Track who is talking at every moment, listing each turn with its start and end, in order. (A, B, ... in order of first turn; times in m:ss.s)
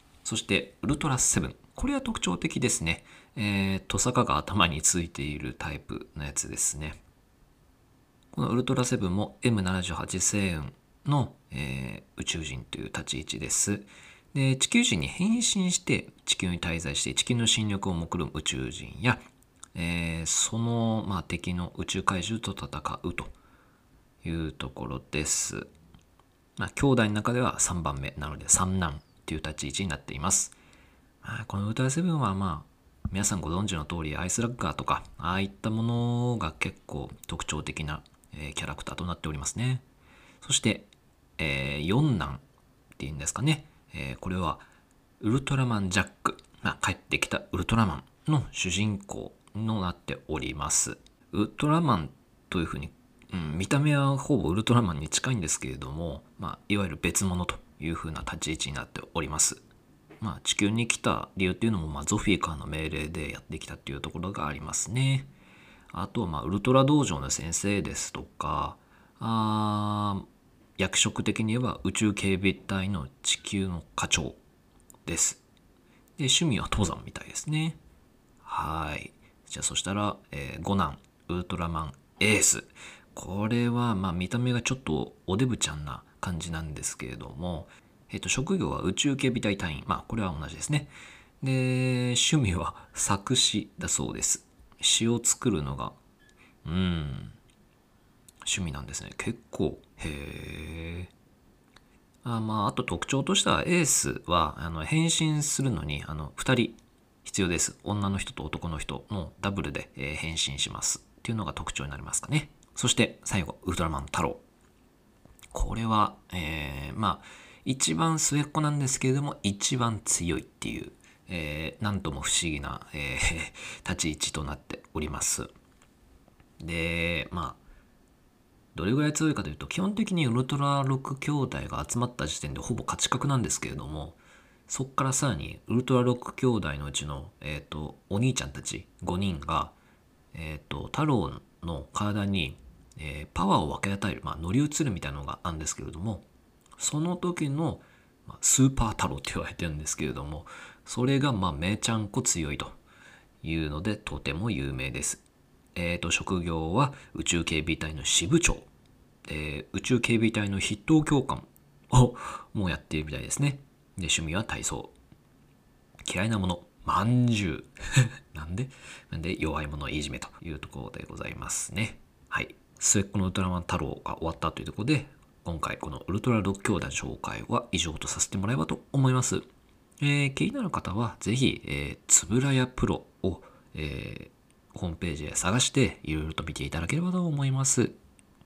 0:00.2-0:07.0 A
0:08.3-0:19.2 A
0:19.8-0:23.3 A
0:24.2-0:25.7 A
0:26.6-0:30.6 A
0:31.2-0:39.8 A
0:40.4-0:42.4 A
0:43.0-0:44.6 A
0:45.2-0:59.6 A
1:00.2-1:05.3 A
1:05.9-1:10.3 A
1:10.8-1:14.4 A
1:15.1-1:15.4 A
1:16.2-1:17.8 A
1:18.4-1:36.0 A
1:36.6-1:37.4 A
1:38.4-1:41.1 A
1:42.2-1:54.4 A
1:55.5-2:05.5 A
2:06.6-2:07.6 A
2:08.8-2:19.8 A
2:20.3-2:26.3 A
2:26.8-2:32.8 A
2:33.4-2:35.2 A
2:35.8-2:38.7 A
2:39.3-2:44.9 A
2:46.0-2:59.5 A
3:00.0-3:08.0 A